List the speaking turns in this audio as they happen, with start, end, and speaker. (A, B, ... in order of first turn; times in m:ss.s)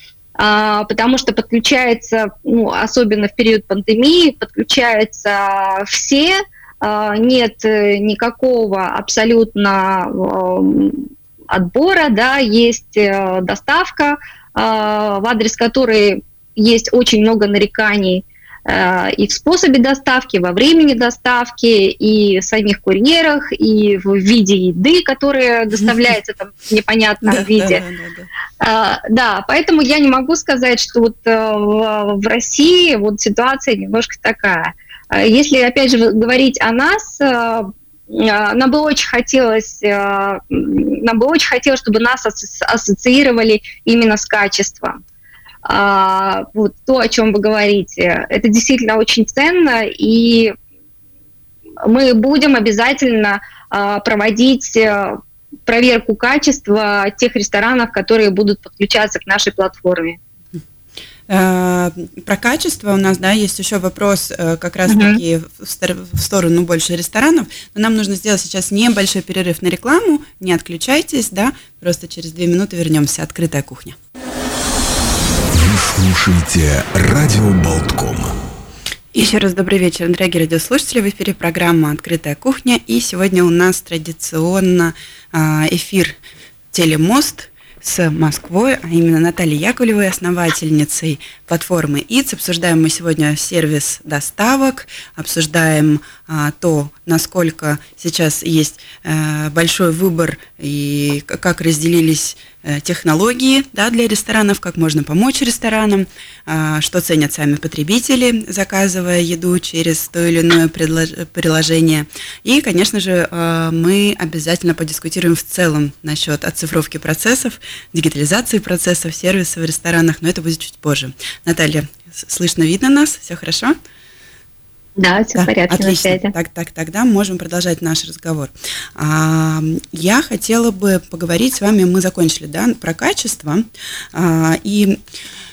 0:00.4-0:27.8 A
0:27.2-0:28.3 B
0:28.6-0:45.0 A
0:45.6-0:50.5 A
0:51.8-1:00.2 A
1:01.3-1:14.0 B
1:04.9-1:05.2 A
1:15.5-1:18.3 C
1:19.1-1:26.2 B
1:26.7-2:03.7 B
2:05.0-2:06.3 A
2:05.4-2:15.0 B